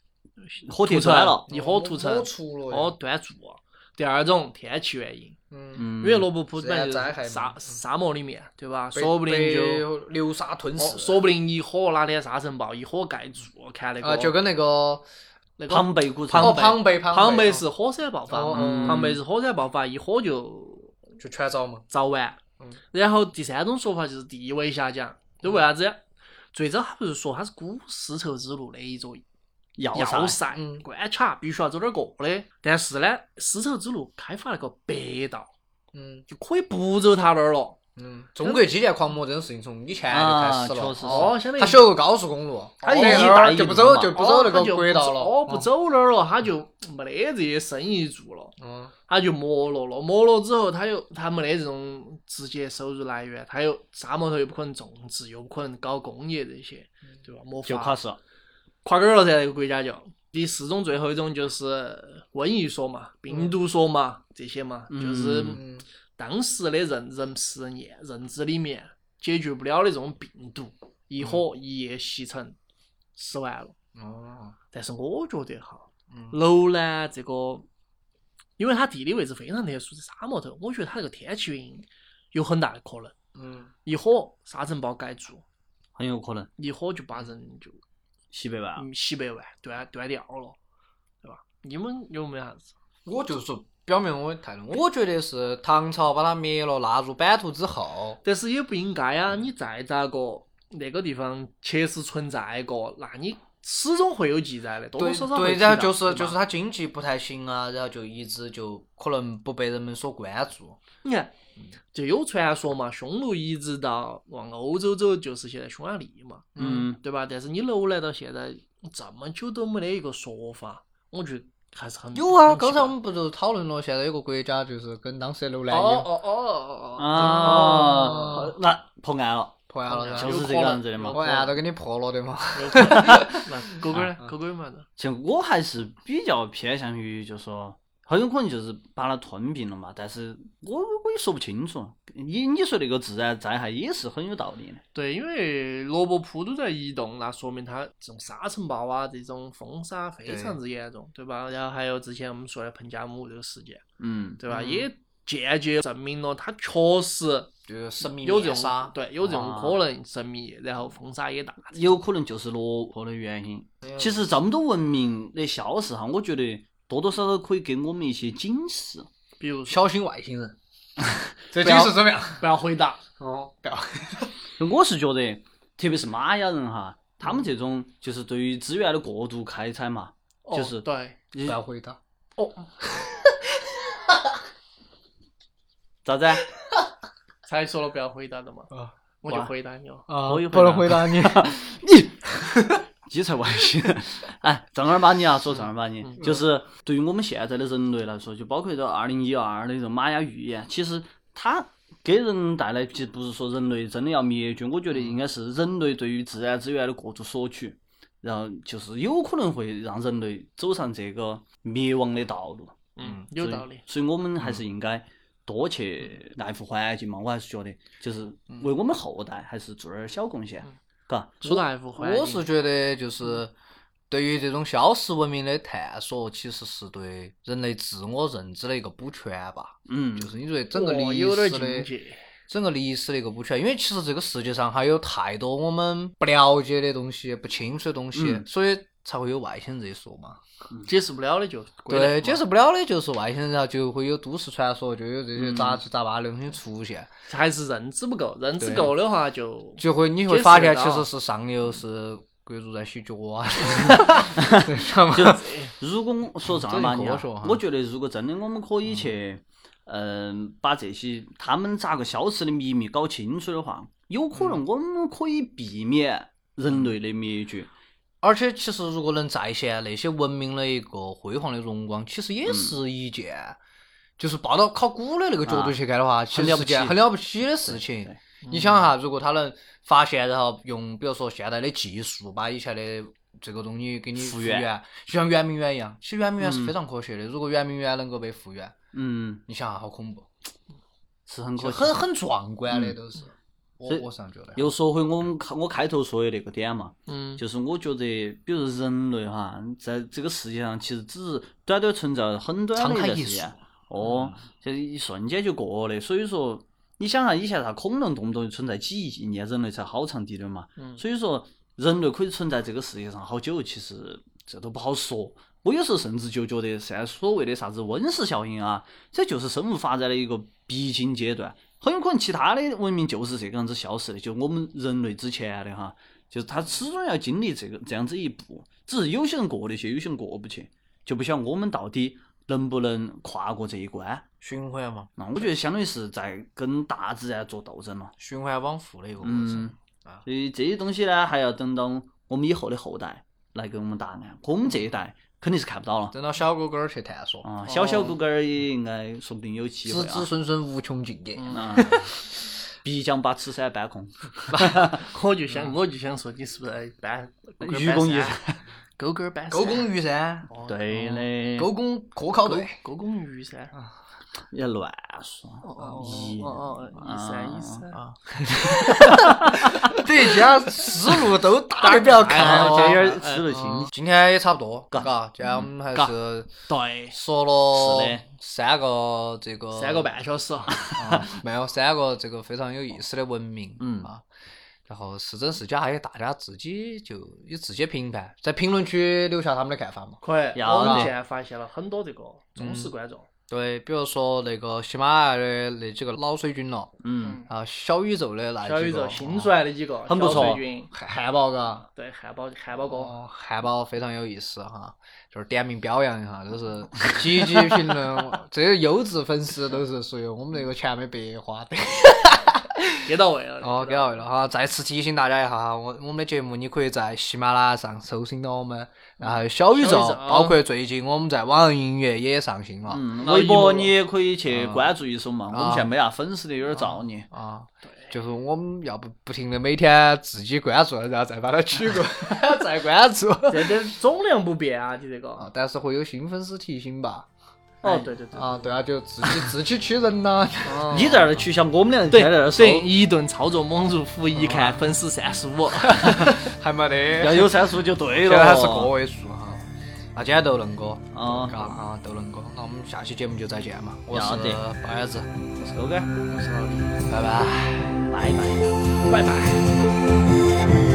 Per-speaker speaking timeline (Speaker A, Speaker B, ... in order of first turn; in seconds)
Speaker A: 0.6-5.4, 6.0-9.9, 10.8-14.4, 15.6-21.0, 21.9-22.4, 22.9-26.0, 26.5-29.2, 29.9-35.5, 36.3-37.8, 41.0-41.9, 42.8-43.5, 44.1-48.6, 49.1-58.0, 58.8-72.6, 73.2-73.8, 74.7-77.7, 78.6-83.1, 83.8-85.4, 86.6-87.8, 88.8-90.6, 91.2-92.7, 98.2-106.4, 111.0-111.3, 111.9-123.0, 125.7-128.5, 129.9-131.6, 132.6-134.9, 144.9-153.8, 154.4-161.9, 169.4-169.8, 171.6-173.0, 180.4-181.2, 182.4-183.1, 187.5-190.1, 213.0-213.8, 221.4-222.4, 230.7-232.2, 240.9-242.4, 247.3-251.1, 255.3-255.7, 278.4-278.9, 297.1-297.4, 347.7-348.1, 351.4-352.0, 354.9-358.4, 359.0-359.9, 360.5-361.1, 362.5-363.8, 365.6-368.0, 371.8-373.9, 376.6-377.2, 379.7-381.0, 390.2-393.3, 398.6-400.9, 402.0-403.1, 413.0-414.2, 419.7-420.6, 423.2-423.9, 427.8-428.1, 433.5-435.5, 437.8-438.7, 440.6-441.3, 442.1-446.4, 456.3-457.0, 459.1-459.7
Speaker B: 0.7-1.4, 5.8-6.3, 15.7-16.6, 18.5-19.2, 29.8-30.4, 40.1-41.3, 42.9-44.2, 57.7-58.2, 64.9-65.6, 86.0-86.5, 88.3-88.8, 116.6-117.0, 127.0-129.6, 130.1-131.2, 135.0-144.8, 154.0-154.4, 159.2-159.8, 161.7-169.1, 174.6-181.6, 186.1-186.5, 190.2-192.2, 193.1-221.4, 229.9-230.3, 238.1-238.4, 245.4-245.8, 253.9-267.7, 272.5-272.8, 275.5-275.8, 276.3-278.2, 284.2-284.7, 286.4-286.8, 288.9-289.4, 291.3-292.0, 292.7-293.0, 294.6-334.3, 335.2-338.1, 339.2-346.1, 347.4-350.3, 351.5-352.1, 352.8-355.0, 357.6-358.6, 360.6-361.7, 364.5-367.9, 368.5-370.1, 372.3-373.9, 374.9-375.6, 377.7-378.2, 380.8-381.2, 383.8-384.1, 390.6-391.1, 397.0-397.4, 400.1-400.6, 422.9-427.3, 440.9-442.9, 447.1-448.9, 451.1-451.8, 454.1-454.6, 455.6-456.2, 458.1-458.7
Speaker C: 1.5-3.0, 5.5-5.8, 6.6-7.7, 8.9-11.3, 14.0-15.1, 16.4-17.6, 18.3-19.2, 21.2-21.9, 30.6-30.9, 35.9-36.2, 38.0-45.7, 48.6-48.9, 65.5-65.8, 74.0-74.6, 76.1-76.4, 83.4-83.7, 93.1-98.2, 105.0-110.8, 116.6-116.9, 122.2-126.1, 127.2-128.5, 129.7-130.4, 131.1-133.5, 150.3-150.6, 154.5-154.9, 157.7-158.9, 163.8-164.3, 169.7-170.6, 171.5-172.4, 173.2-174.3, 181.4-182.0, 183.0-184.3, 190.1-191.6, 192.4-192.8, 221.4-223.5, 224.1-231.9, 232.5-240.4, 241.9-247.1, 248.6-248.9, 249.8-255.4, 256.5-257.6, 268.2-273.6, 274.2-288.8, 289.5-290.3, 291.6-294.6, 302.8-303.5, 334.4-335.1, 338.2-340.2, 346.1-347.5, 349.9-352.1, 359.5-360.5, 361.6-362.8, 367.9-376.5, 377.1-380.1, 381.0-384.2, 384.9-390.2, 390.7-391.1, 392.6-392.9, 393.5-399.5, 400.9-401.9, 402.9-423.0, 424.5-424.9, 425.5-425.9, 426.8-433.8, 435.4-437.3, 438.3-441.1, 444.4-444.8, 445.9-447.6, 448.2-455.3, 457.1-458.1